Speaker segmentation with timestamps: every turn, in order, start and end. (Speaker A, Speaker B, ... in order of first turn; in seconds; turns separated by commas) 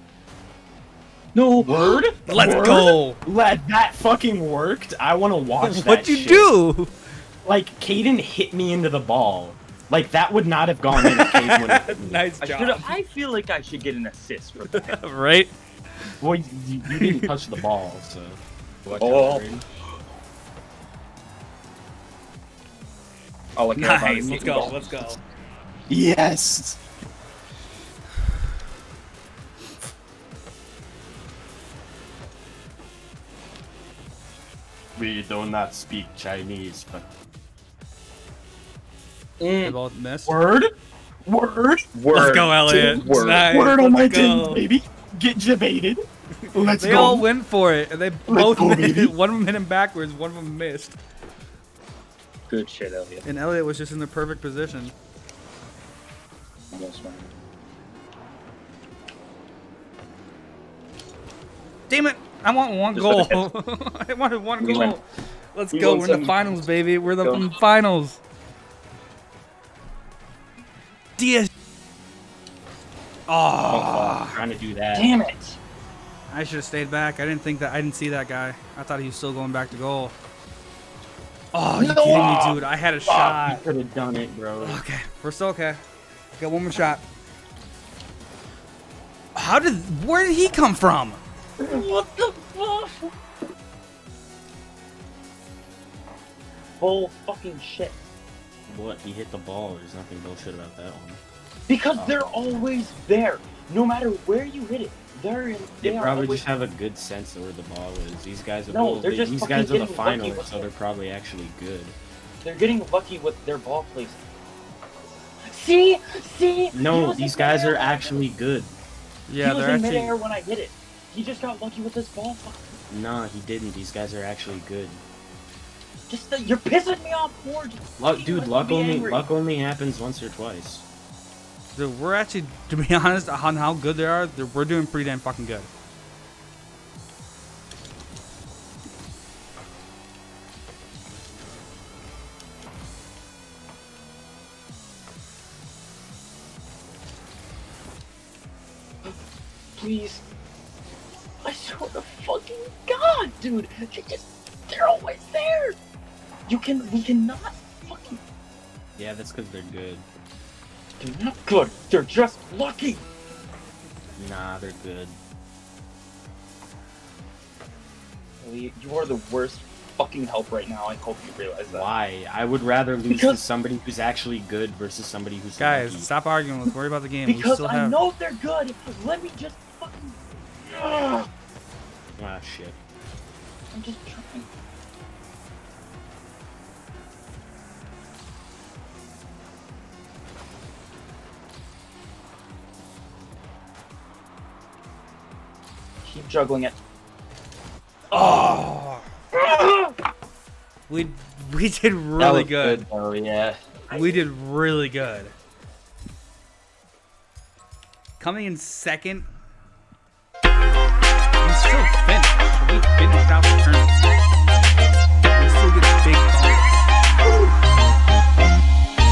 Speaker A: 1.3-2.1, Speaker B: 1.6-6.5, Speaker C: 2.3-3.2, Speaker C: 5.6-6.9, Speaker B: 7.4-12.2, Speaker C: 10.9-13.0, Speaker A: 12.4-15.0, Speaker C: 14.7-15.5, Speaker B: 16.2-19.6, Speaker C: 16.9-17.3, Speaker A: 18.9-19.5, Speaker A: 23.6-25.1, Speaker C: 23.7-25.2, Speaker B: 25.9-26.8, Speaker B: 35.0-37.1, Speaker A: 39.4-39.8, Speaker C: 39.6-40.4, Speaker B: 40.2-40.7, Speaker B: 41.2-41.9, Speaker A: 41.9-43.5, Speaker C: 42.1-44.6, Speaker B: 42.6-47.3, Speaker C: 46.5-51.0, Speaker B: 48.3-49.1, Speaker A: 52.5-53.2, Speaker C: 53.2-54.9, Speaker A: 56.7-57.3, Speaker C: 61.9-68.2, Speaker A: 62.9-63.5, Speaker A: 64.6-65.0, Speaker A: 65.7-67.5, Speaker C: 71.2-71.5, Speaker C: 73.3-74.4, Speaker B: 73.7-75.1, Speaker A: 74.9-75.6, Speaker C: 76.3-80.1, Speaker C: 81.5-83.6, Speaker A: 81.8-82.5, Speaker B: 82.0-84.8, Speaker C: 84.6-85.8, Speaker C: 86.4-87.0, Speaker C: 89.3-91.2, Speaker A: 91.6-93.1, Speaker A: 96.8-98.0, Speaker B: 98.7-101.2, Speaker A: 101.7-106.5, Speaker B: 102.0-102.2, Speaker B: 105.8-112.0, Speaker A: 108.7-110.7, Speaker A: 112.4-114.2, Speaker A: 115.4-118.2, Speaker B: 116.7-118.7, Speaker C: 119.3-120.1, Speaker A: 119.4-122.7, Speaker B: 122.9-125.0, Speaker A: 126.1-129.2, Speaker B: 128.0-130.8, Speaker C: 131.7-135.7, Speaker A: 149.8-150.2, Speaker A: 151.4-155.8, Speaker A: 156.5-158.2, Speaker B: 158.9-160.0, Speaker A: 161.0-163.0, Speaker B: 164.2-165.2, Speaker A: 168.4-171.9, Speaker B: 171.7-176.1, Speaker A: 173.1-173.4, Speaker C: 175.6-178.0, Speaker A: 177.2-181.3, Speaker B: 182.2-182.8, Speaker A: 183.7-184.5, Speaker A: 196.0-196.8, Speaker C: 198.1-199.1, Speaker C: 200.9-202.8, Speaker B: 202.2-203.6, Speaker A: 203.9-204.2, Speaker C: 203.9-205.3, Speaker C: 208.2-209.3, Speaker C: 211.4-214.0, Speaker C: 215.3-216.9